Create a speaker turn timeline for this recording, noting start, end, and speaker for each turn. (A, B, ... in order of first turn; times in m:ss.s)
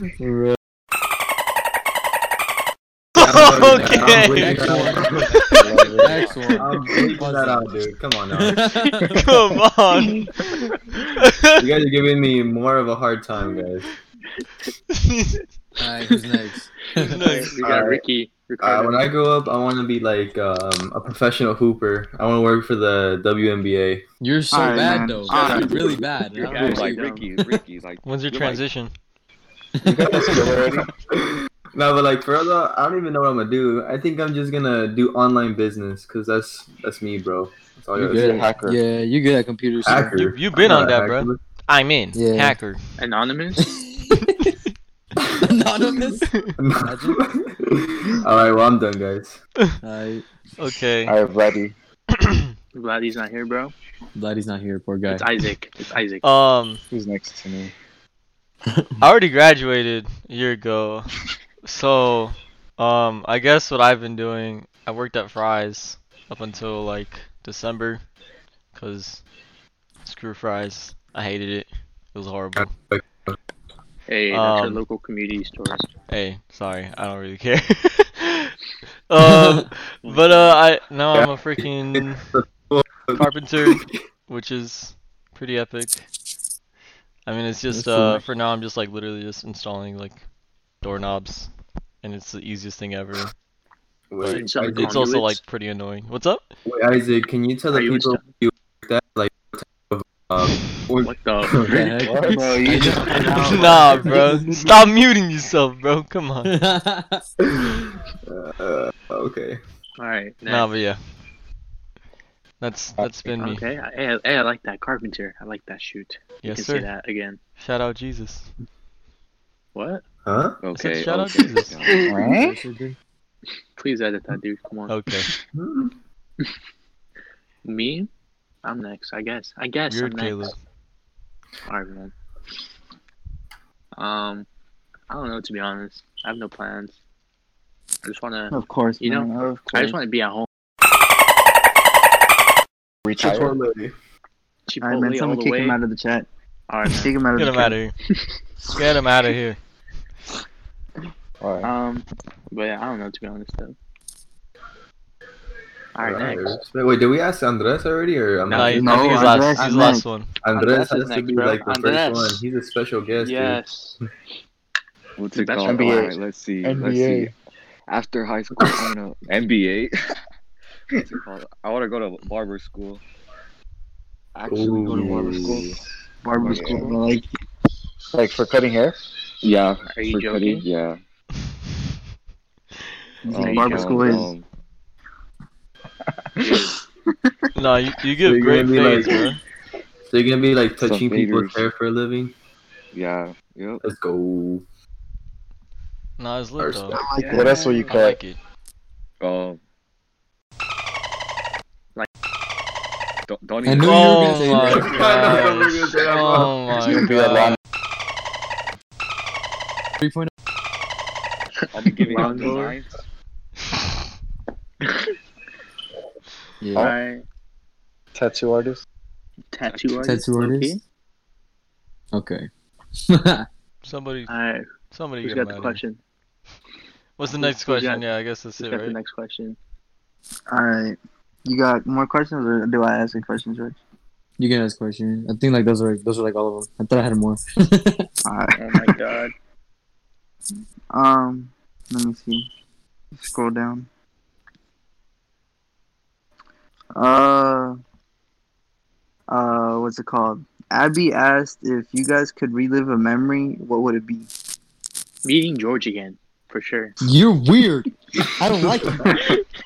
0:00.2-0:00.6 A
0:03.2-0:04.7 B
0:03.2-0:05.5 C
0:04.0-0:05.1 A
0:05.1-0:06.6 D
0:05.4-0:05.6 B
0:05.6-0:06.2 E
0:06.0-0:07.6 A
0:06.6-0:08.7 C
0:08.4-0:09.3 A
0:09.2-0:11.6 B
0:11.6-0:13.9 C
0:15.0-0:15.4 B
0:15.8-0:17.2 A
0:17.0-0:19.0 F
0:17.1-0:17.6 B
0:17.6-0:18.0 C
0:18.6-0:24.0 C
0:24.2-0:27.0 A
0:24.5-0:26.0 G
0:24.9-0:27.3 F
0:26.3-0:28.6 D
0:28.0-0:28.9 B
0:29.8-0:30.6 A
0:29.8-0:30.9 E
0:30.1-0:30.6 C
0:31.2-0:38.5 C
0:38.0-0:38.8 E
0:38.1-0:40.2 A
0:39.8-0:41.4 C
0:40.2-0:42.8 B
0:42.1-0:42.6 A
0:43.0-0:43.7 F
0:43.6-0:44.5 A
0:45.4-0:47.2 A
0:46.6-0:49.4 C
0:49.8-0:50.2 A
0:50.6-0:51.1 B
0:51.0-0:51.7 E
0:52.2-0:52.4 B
0:52.7-0:53.7 F
0:54.2-0:55.3 A
0:55.1-0:56.2 F
0:56.2-0:56.8 B
0:56.9-0:57.7 E
0:59.0-1:08.1 B
1:08.7-1:09.2 B
1:10.0-1:12.7 B
1:12.6-1:13.3 C
1:14.1-1:15.9 F
1:14.3-1:14.8 B
1:16.1-1:18.5 B
1:19.1-1:22.4 B
1:19.2-1:19.6 A
1:20.0-1:20.6 F
1:21.1-1:23.7 C
1:23.1-1:26.1 B
1:27.2-1:30.2 B
1:27.7-1:28.2 A
1:30.8-1:31.5 B
1:32.0-1:33.3 B
1:34.1-1:35.0 C
1:34.2-1:35.4 F
1:34.3-1:36.5 B
1:36.6-1:41.7 C
1:37.7-1:38.3 F
1:41.0-1:42.0 F
1:41.7-1:44.5 A
1:42.0-1:43.6 E
1:42.6-1:44.1 G
1:42.8-1:43.7 F
1:43.4-1:46.6 B
1:46.4-1:47.2 A
1:47.5-1:49.6 C
1:50.0-1:50.7 F
1:50.4-1:51.0 B
1:52.6-1:53.6 B
1:53.3-1:57.4 F
1:56.4-1:56.9 B
1:57.6-1:58.5 B
1:59.7-2:00.0 F
2:00.2-2:00.6 C
2:00.6-2:02.1 D
2:00.7-2:01.9 B
2:02.0-2:02.6 E
2:02.3-2:03.0 A
2:03.8-2:05.1 F
2:04.9-2:05.3 B
2:05.6-2:05.9 C
2:07.6-2:08.1 F
2:08.6-2:10.5 F
2:09.9-2:10.6 B
2:11.7-2:12.1 F
2:14.0-2:14.5 F
2:15.1-2:17.0 F
2:18.0-2:20.4 F
2:18.5-2:20.0 G
2:23.0-2:23.6 E
2:23.2-2:23.9 C
2:24.7-2:25.8 F
2:24.8-2:26.3 G
2:26.7-2:27.1 F
2:26.8-2:27.8 G
2:27.4-2:27.9 B
2:28.7-2:29.6 B
2:31.4-2:31.7 E
2:31.6-2:33.8 F
2:36.0-2:36.6 F
2:36.0-2:39.3 C
2:38.5-2:40.3 B
2:38.6-2:40.0 G
2:39.4-2:39.9 F
2:40.4-2:43.6 C
2:40.5-2:42.4 F
2:43.1-2:44.0 F
2:45.2-2:47.3 D
2:45.3-2:46.1 F
2:45.7-2:46.1 G
2:46.6-2:47.3 E
2:47.9-2:49.9 D
2:50.9-2:53.0 D
2:54.3-2:55.7 D
2:54.4-2:55.6 C
2:54.7-2:55.6 G
2:55.0-2:55.6 E
2:56.2-2:57.3 G
2:56.4-2:57.0 D
2:58.1-2:59.0 E
2:59.4-3:01.0 D
2:59.9-3:00.7 F
3:03.2-3:04.3 G
3:03.3-3:04.2 F
3:03.3-3:04.4 D
3:06.4-3:06.7 F
3:06.4-3:06.7 D
3:07.5-3:09.4 B
3:08.2-3:09.3 C
3:10.1-3:12.3 C
3:10.8-3:11.7 D
3:12.9-3:13.8 D
3:13.8-3:14.6 C
3:16.2-3:17.0 B
3:16.6-3:17.0 C
3:16.9-3:17.7 G
3:17.2-3:17.9 F
3:17.3-3:18.2 E
3:17.9-3:18.4 B
3:19.2-3:19.6 D
3:23.3-3:24.8 D
3:23.6-3:24.9 A
3:23.8-3:27.6 B
3:24.7-3:27.5 C
3:27.2-3:27.5 E
3:30.0-3:30.3 A
3:31.7-3:32.9 D
3:31.9-3:32.8 F
3:32.2-3:32.5 G
3:36.6-3:36.9 A
3:36.8-3:37.2 F
3:38.1-3:38.8 E
3:39.5-3:40.8 F
3:39.6-3:40.1 D
3:40.0-3:40.8 A
3:42.1-3:42.5 A
3:43.0-3:43.5 A
3:43.8-3:44.4 B
3:44.3-3:44.7 F
3:44.9-3:45.8 B
3:45.2-3:46.0 F
3:47.2-3:49.0 B
3:47.3-3:48.1 F
3:48.6-3:49.6 F
3:50.5-3:53.8 G
3:54.4-3:58.1 A
3:58.2-3:59.0 G
3:58.6-3:59.3 F
4:00.9-4:02.5 G
4:03.2-4:03.9 G
4:06.9-4:07.8 G
4:09.3-4:14.3 G
4:15.2-4:16.9 F
4:17.0-4:19.2 A
4:19.1-4:19.4 F